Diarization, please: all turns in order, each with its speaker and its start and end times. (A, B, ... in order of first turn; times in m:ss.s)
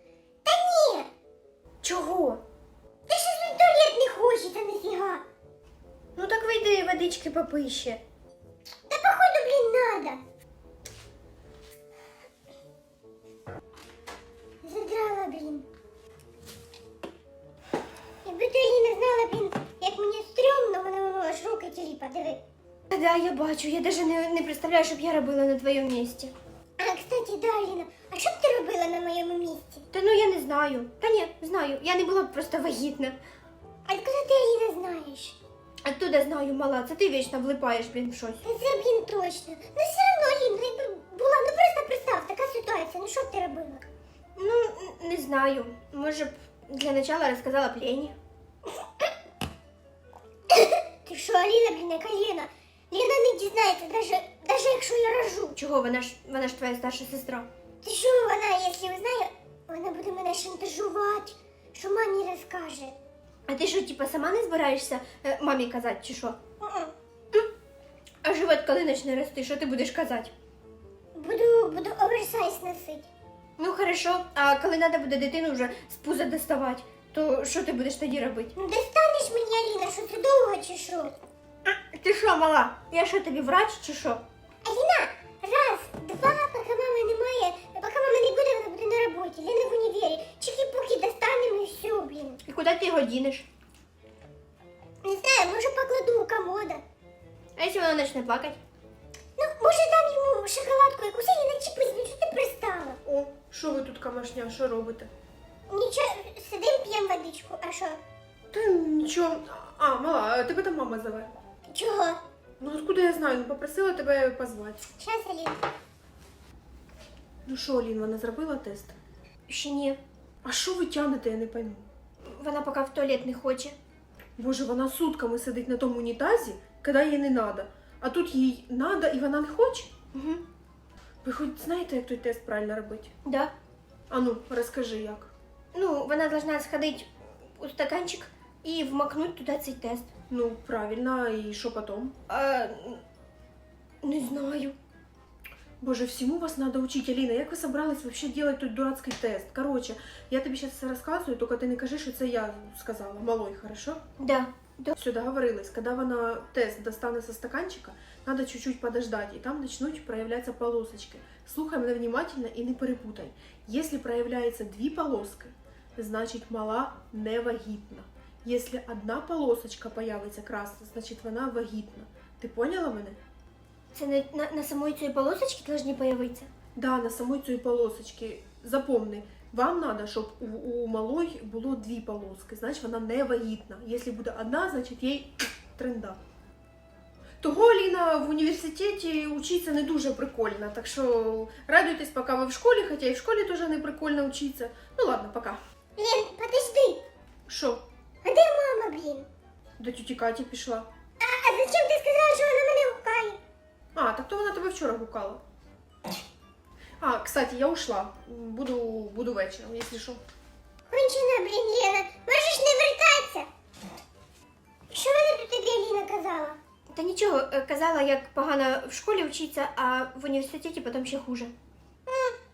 0:00.5-0:01.1 A
0:01.8-0:02.4 B
0:03.1-0:05.2 A
0:06.2-0:08.0 B
0:08.9-0:10.2 A
0:14.6-0:15.7 A
0:18.2-0:22.4 A
0:22.9-0:26.3 B
0:26.8-0:29.9 A
0:29.9-0:33.2 B
0:33.9-0:35.4 A
0:35.8-0:38.4 B
0:38.4-0:43.8 A
0:44.4-0:48.1 B
0:50.5-0:55.6 A
0:55.6-0:57.5 B
0:57.8-1:02.9 A
1:03.5-1:06.4 B
1:06.6-1:06.9 A
1:08.2-1:10.3 B
1:11.2-1:13.1 A
1:13.6-1:18.5 B
1:18.6-1:21.1 A
1:21.7-1:24.2 B
1:24.6-1:32.4 A
1:32.4-1:33.5 B
1:35.0-1:36.8 A
1:37.6-1:38.6 B
1:39.4-1:43.0 A
1:43.1-1:45.1 C
1:45.7-1:48.0 A
1:48.5-1:48.9 B
1:48.6-1:51.3 C
1:51.7-1:52.2 A
1:52.6-1:54.8 C
1:55.0-1:55.6 A
1:57.5-1:58.9 C
1:59.5-2:00.0 B
2:00.4-2:01.8 C
2:02.2-2:03.8 B
2:04.4-2:09.9 C
2:10.1-2:10.4 B
2:11.2-2:13.1 C
2:13.2-2:13.5 B
2:14.1-2:15.3 C
2:15.7-2:20.1 B
2:20.3-2:22.1 C
2:22.3-2:23.0 B
2:24.0-2:24.8 B
2:25.8-2:34.0 C
2:34.2-2:35.0 B
2:35.0-2:53.2 C
2:53.9-2:56.5 B
2:56.8-3:06.2 C
3:07.4-3:15.6 C
3:16.0-3:17.0 A
3:17.5-3:17.8 C
3:18.2-3:19.3 A
3:19.8-3:20.9 C
3:21.2-3:23.4 A
3:24.0-3:25.4 C
3:27.0-3:30.2 C
3:30.9-3:33.5 A
3:34.9-3:36.6 A
3:37.0-3:41.5 B
3:42.1-3:42.4 A